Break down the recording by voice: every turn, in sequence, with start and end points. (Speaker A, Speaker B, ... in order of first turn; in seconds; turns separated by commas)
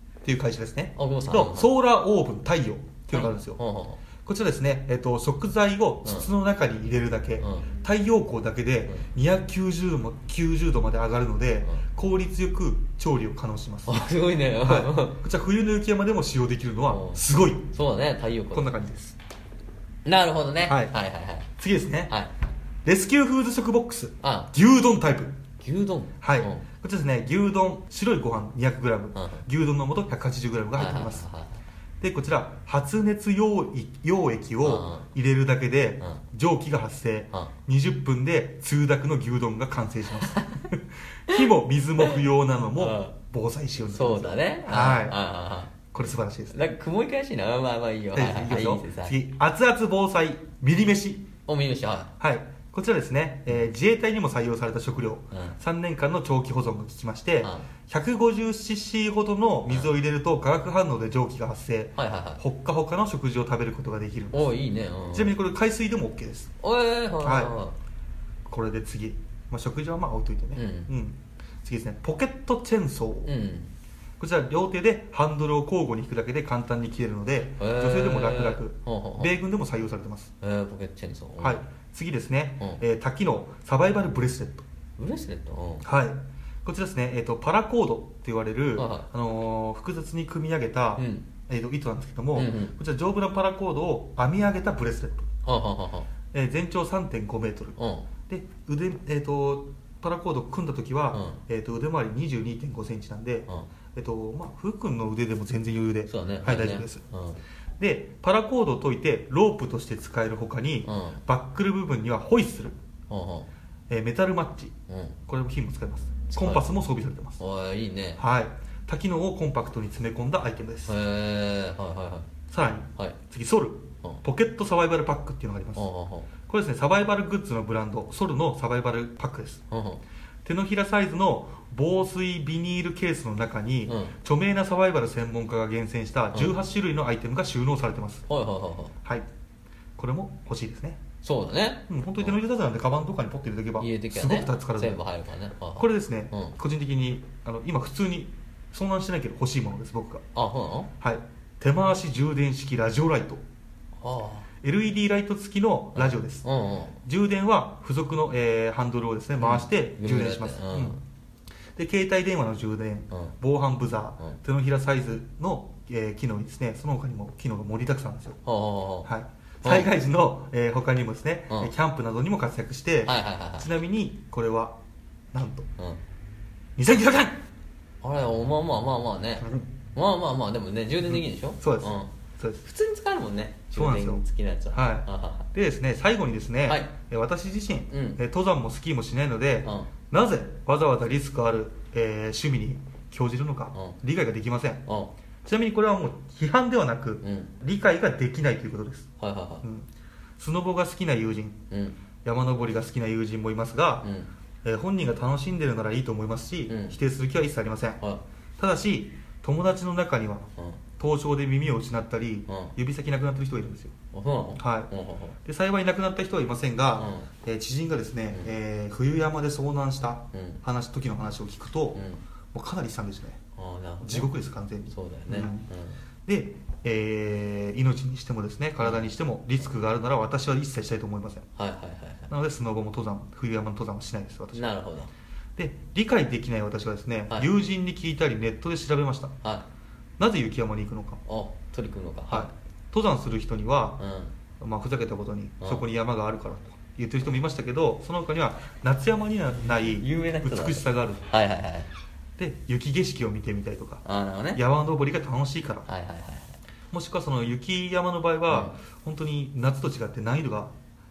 Speaker A: 0.2-3.6, Speaker B: 0.9-1.7, Speaker B: 3.1-4.0, Speaker A: 4.2-14.1, Speaker B: 7.4-7.7, Speaker B: 13.9-15.2, Speaker A: 14.6-17.7, Speaker B: 16.9-18.7, Speaker A: 18.5-19.2, Speaker B: 20.1-21.5, Speaker A: 20.6-20.9, Speaker A: 21.6-22.1, Speaker A: 22.9-25.4, Speaker B: 24.2-24.5, Speaker B: 25.6-26.6, Speaker A: 26.2-31.3, Speaker B: 29.1-29.4, Speaker B: 30.8-31.6, Speaker A: 32.0-45.2, Speaker B: 34.6-35.1, Speaker B: 40.3-40.6, Speaker B: 42.8-43.1, Speaker B: 43.9-45.8, Speaker A: 45.9-46.6, Speaker B: 46.5-49.2, Speaker A: 48.1-51.3, Speaker B: 51.5-52.1, Speaker A: 52.2-64.5, Speaker B: 55.3-55.6, Speaker B: 57.4-57.7, Speaker B: 62.0-62.4, Speaker B: 64.3-65.3, Speaker A: 65.1-66.5, Speaker B: 66.6-67.8, Speaker A: 67.2-67.5, Speaker A: 68.5-73.3, Speaker B: 70.5-70.9, Speaker B: 73.3-73.7, Speaker A: 74.2-80.3, Speaker B: 77.6-79.3, Speaker B: 80.4-81.6, Speaker A: 81.4-84.6, Speaker B: 85.0-85.9, Speaker A: 85.8-95.3, Speaker B: 88.8-89.1, Speaker B: 91.0-91.3, Speaker B: 92.4-92.7, Speaker B: 95.5-96.1, Speaker A: 96.3-97.8, Speaker B: 97.8-98.1, Speaker A: 98.3-107.0, Speaker B: 101.1-101.4, Speaker B: 106.1-107.4, Speaker A: 107.8-112.8, Speaker B: 110.8-111.2, Speaker B: 113.1-113.5, Speaker A: 113.9-114.7, Speaker B: 114.9-115.2, Speaker A: 115.3-117.4, Speaker B: 116.3-116.8, Speaker B: 117.4-118.2, Speaker A: 118.2-120.9, Speaker B: 120.9-122.3, Speaker A: 122.5-125.9, Speaker B: 125.8-126.3, Speaker A: 126.5-129.6, Speaker B: 129.7-130.0, Speaker A: 130.4-138.3, Speaker B: 133.9-134.1, Speaker B: 138.3-138.9, Speaker A: 140.0-141.0, Speaker B: 141.2-142.3, Speaker A: 141.9-145.0, Speaker B: 143.8-146.5, Speaker A: 145.8-150.2, Speaker B: 150.3-150.9, Speaker A: 151.0-153.4, Speaker B: 154.0-154.5, Speaker A: 154.6-156.4, Speaker B: 155.9-156.9, Speaker A: 157.0-161.0, Speaker B: 159.4-161.0, Speaker A: 161.8-168.4, Speaker B: 168.4-169.1, Speaker A: 169.1-174.8, Speaker B: 169.6-169.9, Speaker B: 173.1-173.7, Speaker A: 175.3-175.7, Speaker A: 176.8-177.4, Speaker B: 178.0-182.1, Speaker A: 181.1-182.6, Speaker B: 182.6-185.5, Speaker A: 183.7-194.8, Speaker B: 187.9-188.2, Speaker B: 189.6-189.9, Speaker B: 194.9-195.1, Speaker A: 195.4-199.1, Speaker B: 197.2-197.5, Speaker B: 199.2-199.7, Speaker A: 199.6-201.6, Speaker B: 201.7-202.0, Speaker A: 202.2-204.1, Speaker B: 204.0-204.3, Speaker A: 204.6-208.0, Speaker B: 206.7-206.9, Speaker A: 208.6-213.9, Speaker B: 212.5-212.8, Speaker B: 214.1-215.4, Speaker A: 214.6-214.9, Speaker A: 215.4-223.4, Speaker B: 217.0-217.3, Speaker B: 220.3-220.6, Speaker B: 221.9-222.2, Speaker B: 223.6-224.3, Speaker A: 224.0-225.6, Speaker B: 224.9-226.0, Speaker A: 226.3-231.5, Speaker B: 228.8-229.1, Speaker B: 231.6-232.3, Speaker A: 232.3-234.7, Speaker B: 234.5-235.1, Speaker A: 235.6-239.3, Speaker B: 239.4-239.7, Speaker A: 240.2-241.2, Speaker B: 241.3-242.5, Speaker A: 242.3-244.0, Speaker B: 244.0-244.3, Speaker A: 244.6-251.3, Speaker B: 249.9-251.9, Speaker A: 252.4-254.0, Speaker B: 254.1-254.6, Speaker A: 254.6-255.9, Speaker B: 255.9-256.6, Speaker A: 256.9-260.7, Speaker B: 258.5-258.7